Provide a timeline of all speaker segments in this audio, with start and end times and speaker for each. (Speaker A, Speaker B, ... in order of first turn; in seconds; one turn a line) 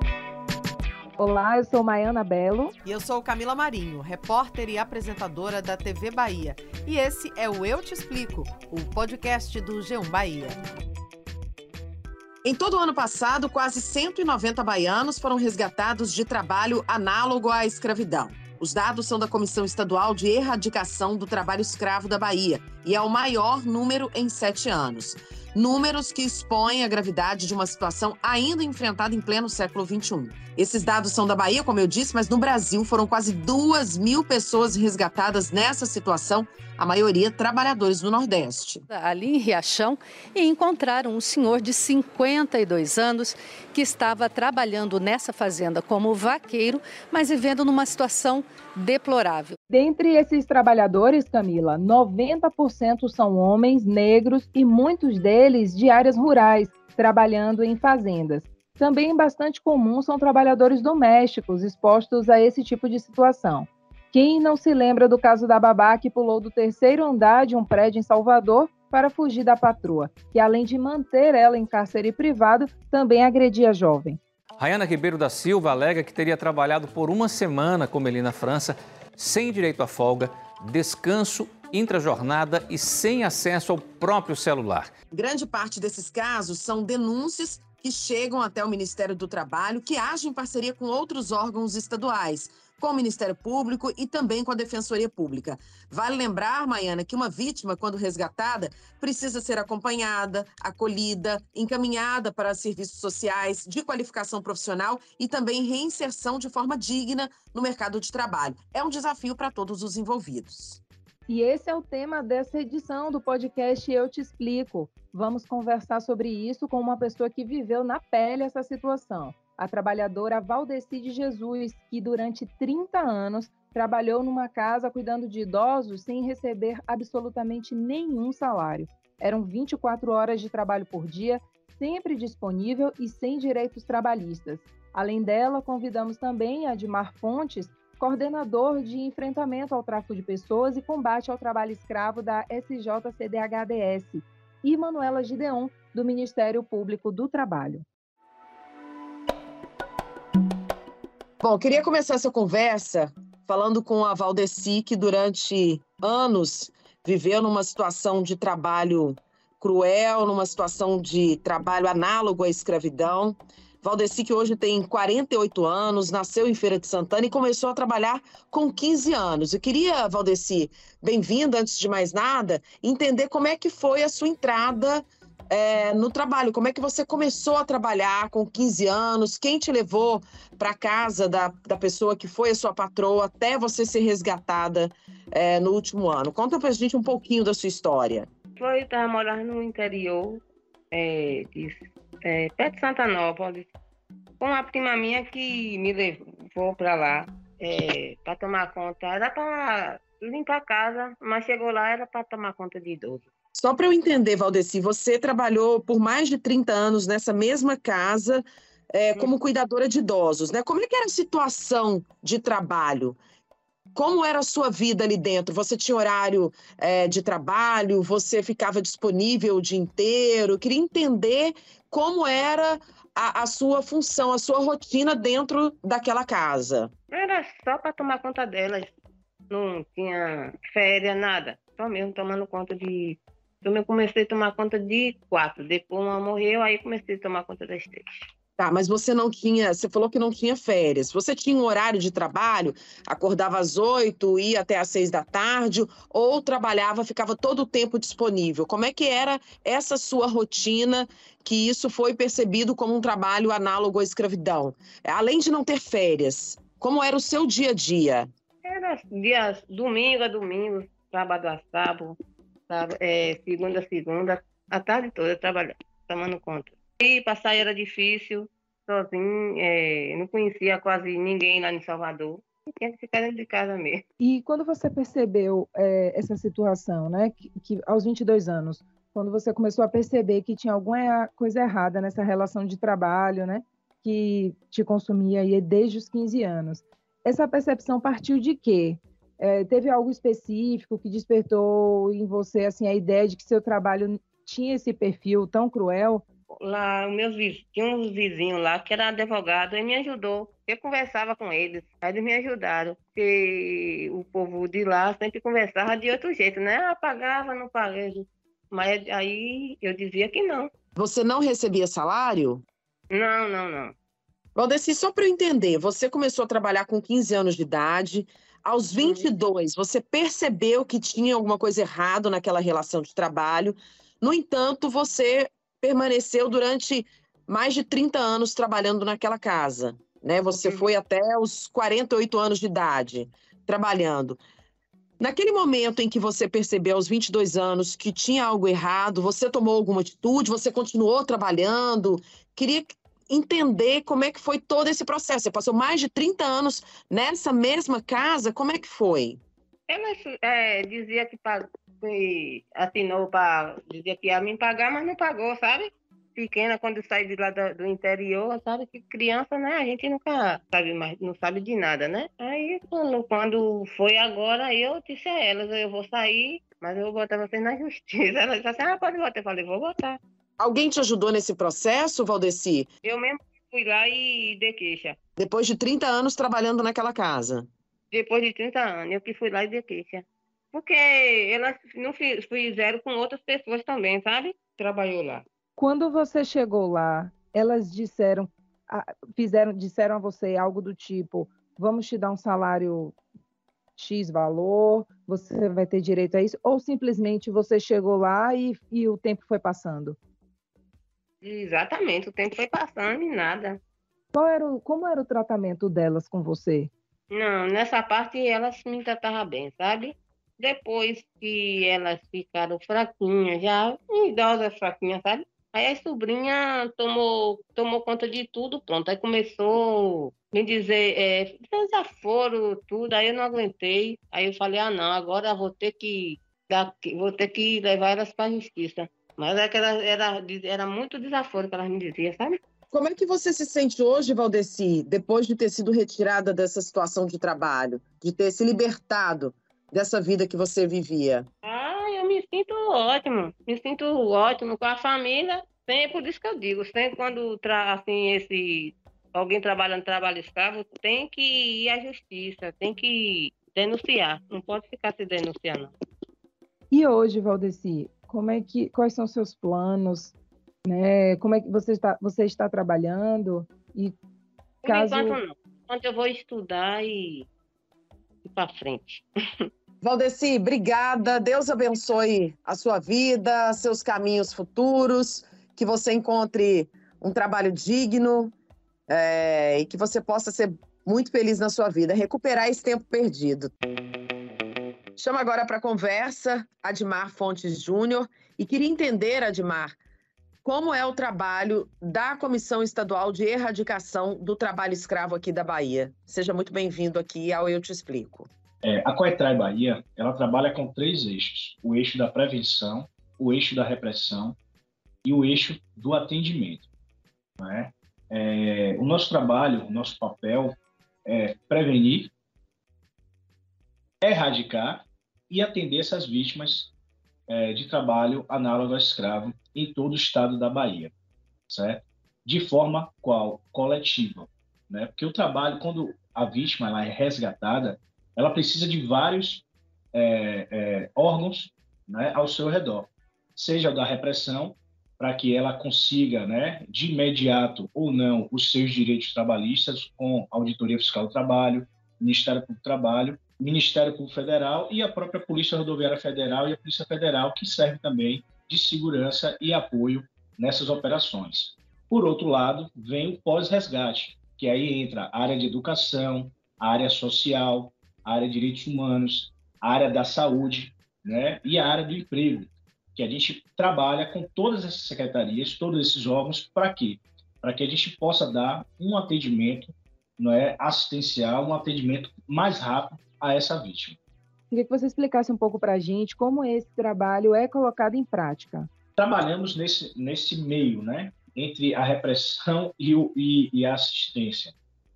Speaker A: 1.2-2.8
Speaker B: 2.8-10.6
Speaker C: 12.4-38.9
Speaker D: 38.9-49.6
Speaker A: 49.7-74.2
Speaker E: 74.6-84.9
Speaker C: 85.1-110.8
Speaker A: 111.3-147.8
Speaker C: 151.4-188.3
Speaker F: 188.6-193.7
Speaker F: 194.4-203.3
Speaker C: 203.6-213.2
Speaker C: 213.9-226.9
Speaker F: 227.1-228.9
Speaker F: 229.5-238.1
Speaker C: 238.6-258.3
Speaker F: 258.6-262.2
Speaker F: 262.7-274.0
Speaker A: 274.2-296.2
Speaker F: 296.6-310.7
Speaker C: 311.0-312.6
Speaker F: 313.1-313.9
Speaker C: 314.6-334.4
Speaker C: 335.2-349.4
Speaker F: 349.9-370.2
Speaker C: 370.6-372.9
Speaker F: 373.1-375.2
Speaker C: 375.4-377.7
Speaker F: 378.1-385.4
Speaker A: 385.8-393.2
Speaker A: 394.0-400.2
Speaker F: 401.4-403.8
Speaker A: 404.3-406.9
Speaker F: 407.3-432.6
Speaker C: 432.9-441.5
Speaker F: 441.6-455.9
Speaker A: 456.9-460.3
Speaker A: 460.9-464.1
Speaker F: 464.8-467.5
Speaker A: 464.9-465.4
Speaker F: 468.4-469.7
Speaker C: 470.0-478.5
Speaker C: 479.1-483.7
Speaker C: 485.2-490.0
Speaker C: 490.6-498.5
Speaker G: 498.8-504.6
Speaker G: 505.2-506.9
Speaker G: 507.6-512.3
Speaker G: 514.2-516.9
Speaker G: 517.5-521.1
Speaker G: 521.7-574.2
Speaker A: 574.7-578.9
Speaker G: 579.2-584.7